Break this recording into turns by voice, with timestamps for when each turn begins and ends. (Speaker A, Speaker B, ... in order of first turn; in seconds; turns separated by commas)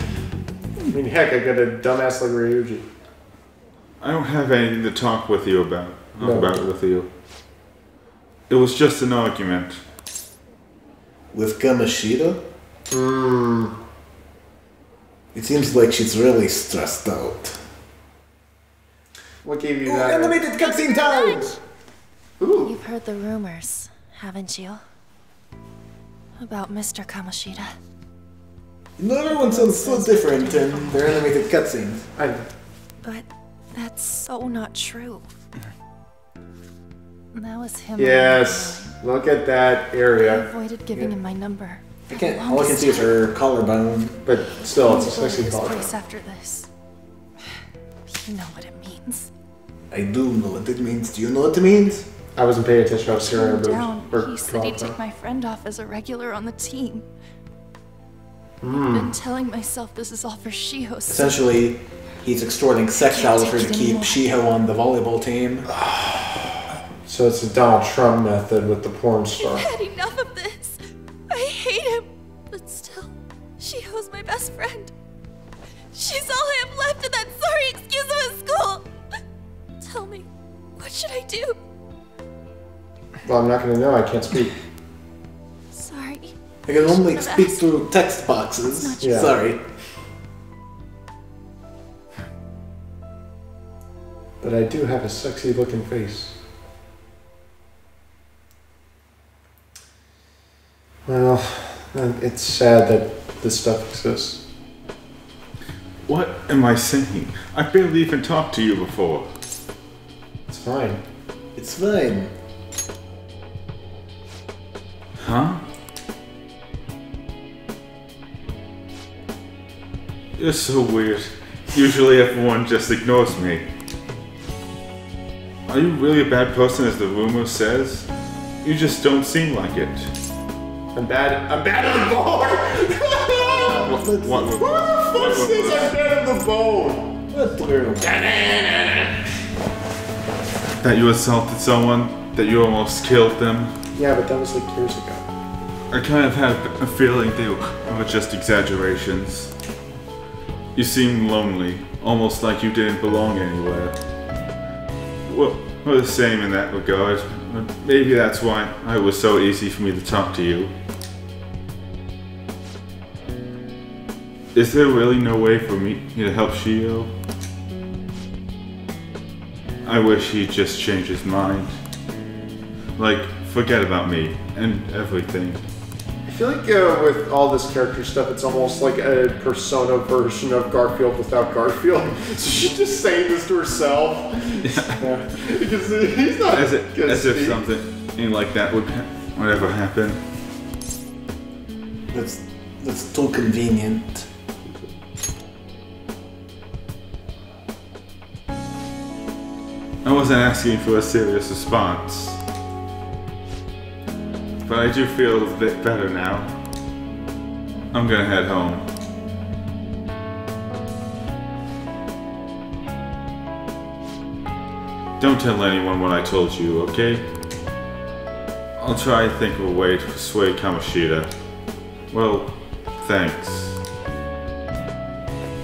Speaker A: 0.9-2.9, Speaker B: 4.0-7.1, Speaker A: 6.2-6.6, Speaker B: 8.5-9.8, Speaker C: 11.3-12.4, Speaker A: 12.9-13.8, Speaker C: 15.3-17.6, Speaker A: 19.4-20.4, Speaker C: 19.8-21.6, Speaker D: 20.5-21.6, Speaker A: 22.4-22.7, Speaker D: 22.6-24.8, Speaker D: 26.4-27.7, Speaker C: 29.0-32.1, Speaker D: 29.3-31.2, Speaker A: 32.1-32.5, Speaker D: 33.0-35.2, Speaker D: 37.3-38.9, Speaker A: 38.0-41.1, Speaker D: 40.2-43.2, Speaker C: 42.1-44.2, Speaker A: 44.2-45.9, Speaker D: 44.7-46.7, Speaker D: 48.1-49.3, Speaker C: 49.9-52.1, Speaker A: 52.4-55.0, Speaker D: 53.3-57.1, Speaker A: 58.6-59.1, Speaker D: 58.8-61.5, Speaker C: 61.1-65.7, Speaker D: 63.0-64.3, Speaker A: 65.7-69.7, Speaker D: 69.4-74.9, Speaker D: 75.9-78.9, Speaker D: 79.8-81.6, Speaker A: 83.2-84.5, Speaker D: 85.7-87.6, Speaker C: 86.7-89.6, Speaker D: 88.8-89.3, Speaker A: 89.0-89.4, Speaker A: 94.4-96.3, Speaker A: 101.0-104.4, Speaker B: 106.1-109.3, Speaker A: 110.5-111.0, Speaker C: 111.5-112.3, Speaker B: 115.2-115.6, Speaker B: 120.4-123.6, Speaker B: 125.7-128.1, Speaker B: 128.6-130.1, Speaker A: 130.9-133.9, Speaker C: 133.3-134.6, Speaker B: 133.6-135.9, Speaker A: 134.6-137.2, Speaker C: 137.3-138.2, Speaker A: 138.0-139.1, Speaker B: 140.8-143.7, Speaker A: 143.9-145.2, Speaker B: 145.9-149.5, Speaker B: 150.7-153.9, Speaker B: 155.2-160.7, Speaker B: 164.5-167.1, Speaker B: 169.8-171.7, Speaker B: 173.0-175.6, Speaker A: 176.3-187.6, Speaker B: 186.5-190.2, Speaker C: 192.1-194.3, Speaker B: 200.0-202.4, Speaker B: 204.6-206.5, Speaker B: 207.9-208.8, Speaker B: 215.2-217.2, Speaker B: 218.8-221.3, Speaker B: 222.1-223.8